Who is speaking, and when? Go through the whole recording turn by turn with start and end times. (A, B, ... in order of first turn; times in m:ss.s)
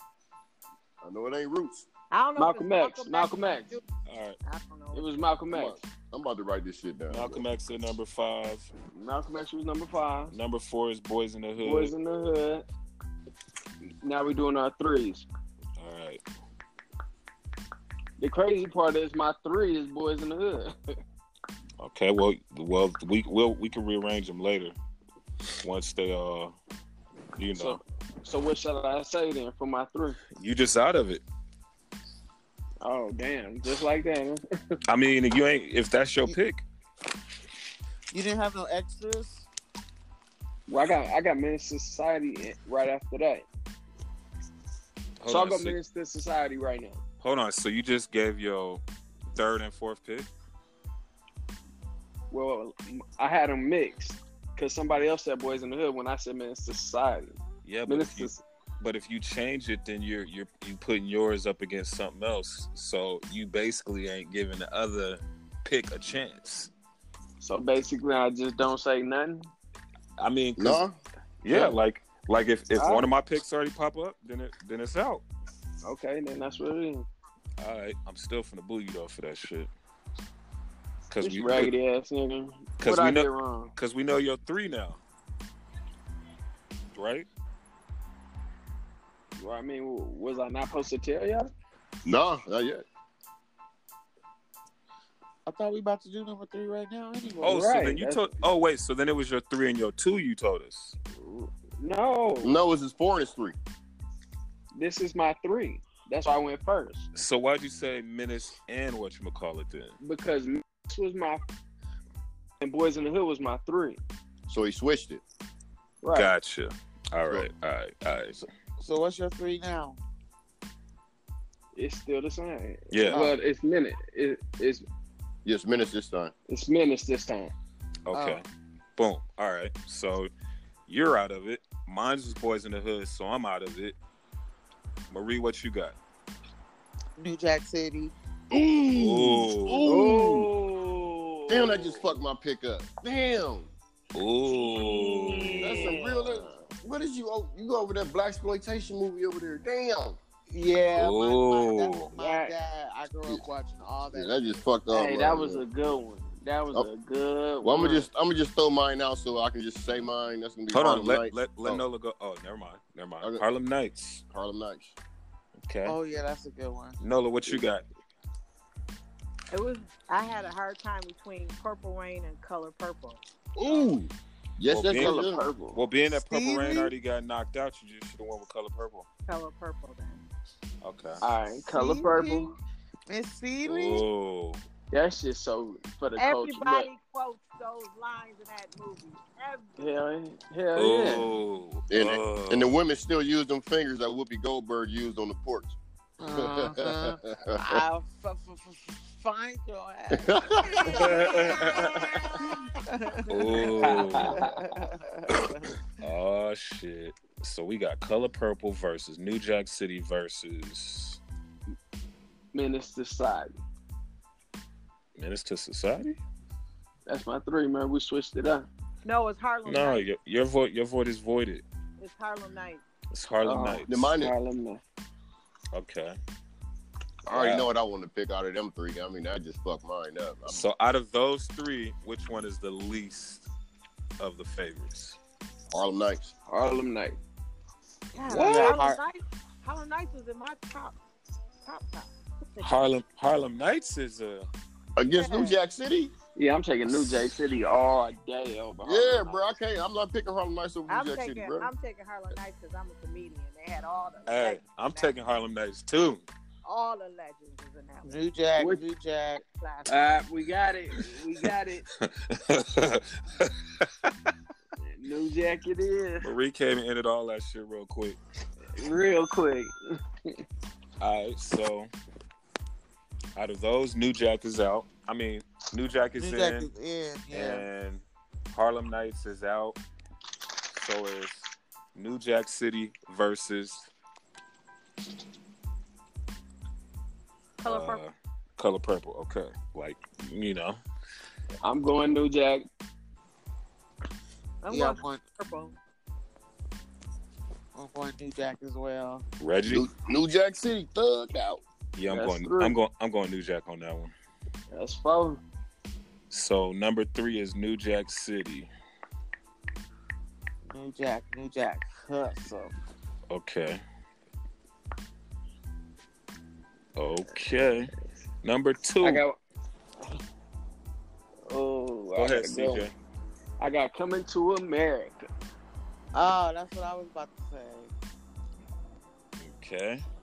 0:01.0-0:01.9 A
0:02.1-0:03.8 B
0:02.4-0:03.7 C
0:04.1-0:04.4 D
0:04.4-0:05.3 B
0:04.9-0:05.8 C
0:05.5-0:07.4 A
0:07.1-0:08.7 D
0:08.9-0:10.3 C
0:10.3-0:11.9 D
0:11.6-0:12.7 C
0:14.0-0:15.3 C
0:15.8-0:16.2 D
0:18.2-0:20.7 C
0:21.8-0:24.8 D
0:25.6-0:26.6 D
0:27.4-0:27.8 D
0:27.6-0:30.2 C
0:30.3-0:31.2 D
0:32.8-0:34.4 C
0:34.9-0:36.6 D
0:38.1-0:39.5 E
0:40.7-0:43.5 C
0:45.2-0:45.8 D
0:45.3-0:47.0 C
0:47.2-0:48.8 D
0:49.3-0:50.3 D
0:52.3-0:58.4 C
0:57.6-1:06.7 D
1:07.4-1:09.5 C
1:10.2-1:10.8 D
1:10.6-1:10.9 A
1:11.4-1:15.2 D
1:12.8-1:13.1 C
1:15.8-1:17.1 C
1:17.6-1:19.7 D
1:21.1-1:21.8 D
1:21.2-1:23.7 C
1:22.8-1:25.0 D
1:26.9-1:27.3 D
1:29.4-1:31.5 C
1:32.0-1:32.8 A
1:35.5-1:37.7 E
1:37.4-1:38.3 C
1:37.4-1:41.0 D
1:41.2-1:42.6 C
1:42.4-1:43.6 A
1:44.7-1:47.1 C
1:47.2-1:50.0 D
1:50.0-1:51.4 C
1:52.6-1:54.0 C
1:54.5-1:55.2 A
1:56.0-1:56.3 C
1:56.1-1:58.5 D
1:58.8-2:00.0 E
2:01.8-2:04.9 C
2:02.9-2:03.3 D
2:03.1-2:03.4 E
2:05.4-2:06.3 A
2:06.5-2:07.5 C
2:08.1-2:08.4 D
2:08.1-2:08.4 E
2:09.0-2:10.3 D
2:10.9-2:14.0 D
2:15.1-2:16.0 D
2:17.2-2:18.1 E
2:18.5-2:20.5 A
2:18.9-2:20.0 D
2:19.8-2:22.1 C
2:21.5-2:23.7 A
2:24.1-2:26.0 D
2:24.6-2:26.7 C
2:25.6-2:30.2 A
2:30.5-2:34.4 E
2:31.0-2:32.1 D
2:32.2-2:32.6 C
2:34.1-2:35.6 A
2:34.9-2:38.1 C
2:37.6-2:41.8 A
2:40.7-2:44.2 D
2:44.3-2:45.0 A
2:45.6-2:46.0 D
2:45.9-2:47.0 E
2:47.0-2:47.8 D
2:49.5-2:53.2 B
2:53.6-2:55.4 A
2:54.7-2:59.1 D
2:54.9-2:55.8 C
2:56.1-2:56.9 E
2:59.3-3:00.2 B
3:00.8-3:01.2 D
3:01.2-3:02.5 C
3:01.6-3:02.5 E
3:03.1-3:04.0 E
3:03.6-3:04.6 D
3:04.9-3:06.9 C
3:06.2-3:10.0 B
3:09.8-3:11.3 C
3:10.8-3:12.8 D
3:11.9-3:15.8 A
3:16.2-3:25.7 E
3:16.3-3:17.8 A
3:20.1-3:21.2 A
3:20.9-3:22.4 C
3:23.3-3:24.4 D
3:23.8-3:24.7 C
3:26.0-3:31.2 D
3:32.5-3:33.6 C
3:35.2-3:36.2 D
3:37.1-3:38.7 C
3:39.0-3:40.0 B
3:39.7-3:41.6 D
3:42.0-3:42.8 B
3:43.1-3:44.0 D
3:43.4-3:44.8 C
3:43.9-3:44.3 A
3:45.7-3:46.2 D
3:47.3-3:50.7 A
3:47.3-3:47.7 D
3:50.5-3:53.5 D
3:54.2-3:55.2 D
3:55.7-3:56.3 A
3:56.5-3:57.2 C
3:58.1-4:01.0 B
3:58.3-3:59.0 E
3:58.3-3:58.8 D
4:01.6-4:02.8 B
4:02.6-4:04.5 D
4:05.0-4:06.1 A
4:05.1-4:05.6 B
4:06.4-4:09.4 C
4:06.9-4:07.1 D
4:08.8-4:11.7 A
4:10.9-4:15.1 B
4:14.3-4:16.3 D
4:16.6-4:18.2 B
4:18.0-4:19.4 E
4:18.6-4:18.8 C
4:19.4-4:20.2 B
4:19.9-4:21.9 C
4:22.0-4:24.3 D
4:24.8-4:26.3 C
4:26.2-4:28.2 D
4:28.7-4:30.4 C
4:31.0-4:31.9 D
4:33.4-4:36.7 D
4:36.2-4:37.7 E
4:37.3-4:39.8 D
4:40.8-4:43.9 D
4:47.6-4:48.0 B
4:47.6-4:50.8 D
4:51.6-4:52.7 C
4:54.6-4:55.8 B
4:54.7-4:55.2 E
4:57.8-4:59.2 E
4:59.4-4:59.9 D
4:59.7-5:01.6 A
5:02.0-5:04.1 D
5:02.1-5:02.8 C
5:04.7-5:05.4 C
5:06.3-5:08.7 D
5:10.7-5:12.7 E
5:13.3-5:13.8 D
5:17.0-5:17.9 D
5:18.4-5:19.2 D
5:19.0-5:19.4 C
5:21.5-5:22.9 C
5:22.2-5:22.9 D
5:23.6-5:25.3 C
5:26.1-5:27.9 E
5:29.4-5:30.0 D